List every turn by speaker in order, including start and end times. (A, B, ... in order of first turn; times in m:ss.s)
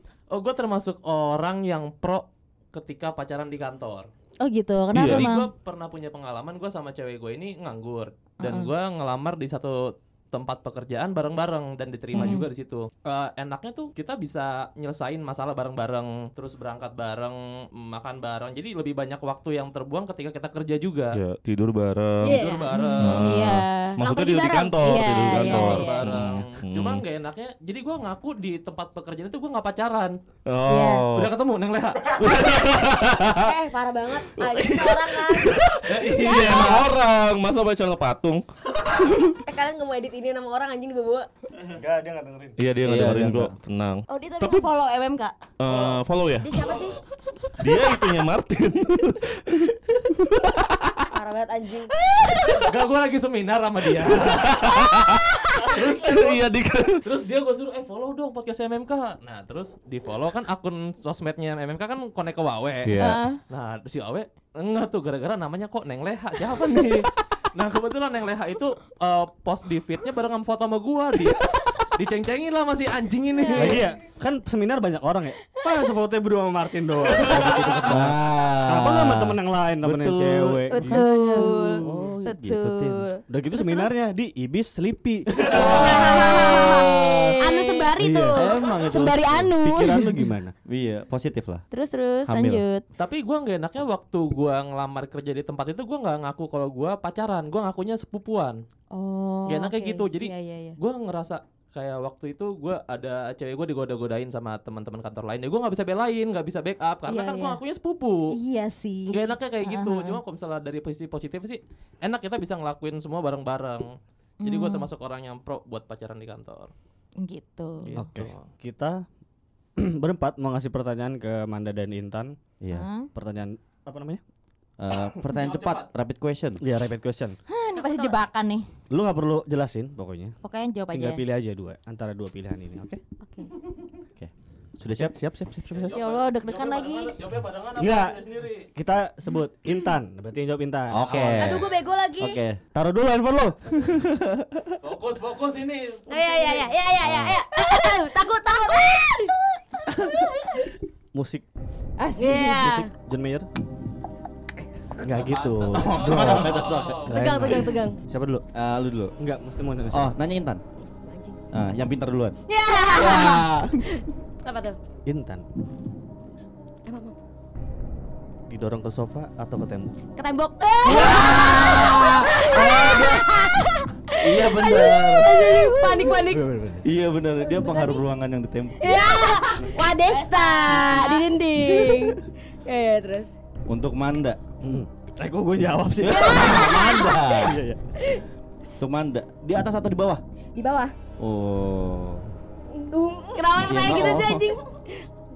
0:00.3-0:04.1 A
0:04.4-0:05.5 B
0:04.9-0:05.3 C
0:05.0-0:21.2 A
0:08.4-0:08.7 B
0:12.1-0:12.5 B
0:12.2-0:12.5 D
0:21.1-0:22.5 C
0:22.2-0:22.7 D
0:22.2-0:23.3 A
0:22.7-0:24.0 B
0:23.0-0:27.0 C
0:24.0-0:25.5 D
0:24.8-0:26.2 B
0:25.3-0:30.2 A
0:30.5-0:31.3 C
0:30.6-0:31.1 B
0:31.1-0:32.7 A
0:32.1-0:33.5 C
0:33.3-0:36.9 D
0:34.4-0:39.4 C
0:35.9-0:36.8 A
0:39.5-0:41.3 D
0:41.6-0:42.7 E
0:42.6-0:44.7 C
0:42.8-0:43.6 F
0:44.1-0:45.4 B
0:45.6-0:46.5 C
0:45.7-0:46.0 A
0:46.4-0:47.0 D
0:47.5-0:51.1 C
0:51.1-0:52.0 D
0:52.3-0:52.5 C
0:52.3-1:13.9 A
0:54.1-0:57.1 C
1:02.8-1:03.3 C
1:03.0-1:03.4 B
1:13.4-1:13.8 B
1:13.6-1:21.0 E
1:17.9-1:23.1 F
1:20.7-1:23.9 B
1:20.8-1:21.8 D
1:21.9-1:22.2 E
1:23.3-1:25.5 E
1:25.3-1:27.4 F
1:25.4-1:29.9 D
1:25.5-1:27.9 B
1:28.0-1:28.5 E
1:28.3-1:29.5 F
1:28.9-1:29.2 B
1:29.5-1:30.5 E
1:29.8-1:30.3 B
1:30.7-1:31.6 F
1:31.7-1:32.8 B
1:32.3-1:32.6 F
1:33.0-1:38.6 A
1:38.9-1:40.8 B
1:39.5-1:48.4 A
1:47.1-1:47.6 B
1:48.3-1:50.2 B
1:49.1-1:53.9 A
1:54.4-1:54.9 B
1:54.4-1:56.7 A
1:57.2-1:58.0 B
1:57.9-1:58.5 A
1:57.9-1:59.1 E
1:59.8-2:02.4 E
2:02.6-2:02.9 F
2:02.7-2:03.1 B
2:03.1-2:04.2 E
2:04.8-2:06.6 F
2:05.4-2:05.8 A
2:06.6-2:07.4 E
2:07.5-2:08.7 B
2:07.8-2:08.2 D
2:08.9-2:10.4 E
2:10.4-2:11.2 B
2:10.9-2:13.0 E
2:13.2-2:13.5 B
2:14.2-2:15.2 F
2:15.0-2:16.0 E
2:15.8-2:18.7 A
2:15.9-2:17.2 B
2:17.8-2:21.5 E
2:20.9-2:22.6 F
2:21.1-2:21.6 A
2:21.1-2:22.4 B
2:22.7-2:23.8 E
2:24.8-2:26.7 A
2:26.1-2:29.4 D
2:27.0-2:27.4 F
2:27.6-2:28.0 B
2:29.9-2:30.7 B
2:31.1-2:31.5 E
2:32.0-2:32.7 B
2:32.2-2:32.9 D
2:32.6-2:33.5 E
2:35.0-2:38.4 E
2:35.1-2:37.3 A
2:35.7-2:37.1 F
2:37.1-2:38.0 D
2:38.5-2:39.1 F
2:39.2-2:40.2 E
2:39.9-2:40.6 F
2:40.8-2:41.4 D
2:41.5-2:43.9 F
2:42.5-2:44.8 D
2:45.1-2:45.5 E
2:46.8-2:47.2 D
2:48.5-2:50.0 E
2:50.2-2:56.5 D
2:50.8-2:53.3 F
2:50.9-2:51.4 B
2:54.2-2:55.4 F
2:55.4-2:56.9 E
2:56.8-2:59.2 F
2:57.5-2:58.0 D
2:58.8-3:03.3 D
2:59.2-3:01.4 B
3:03.7-3:04.5 F
3:04.6-3:07.8 E
3:06.0-3:07.6 F
3:06.3-3:07.2 D
3:08.8-3:10.2 F
3:10.6-3:10.9 B
3:11.2-3:12.2 F
3:12.8-3:14.9 D
3:12.9-3:14.3 B
3:13.6-3:14.5 F